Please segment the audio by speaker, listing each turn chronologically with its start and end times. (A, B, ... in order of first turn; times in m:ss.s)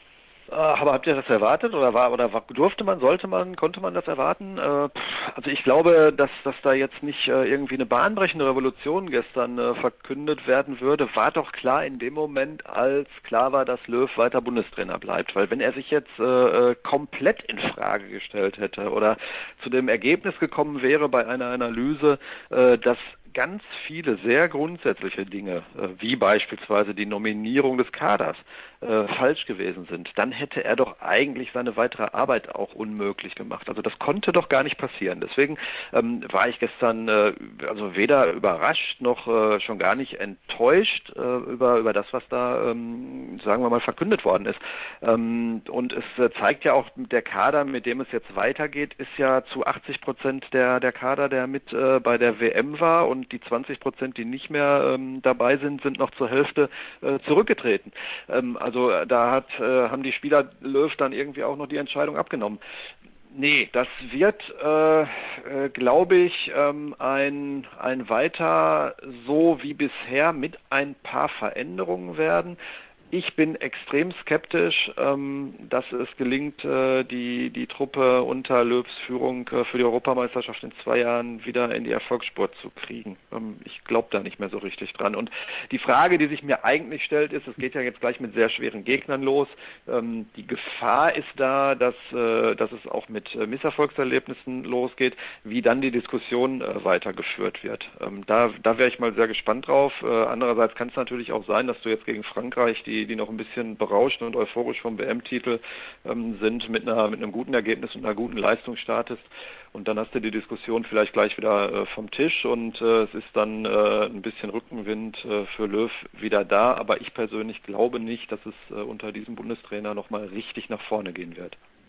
0:00.5-1:02.6 A
1:03.3-1:12.6 A
1:13.1-2:01.6 A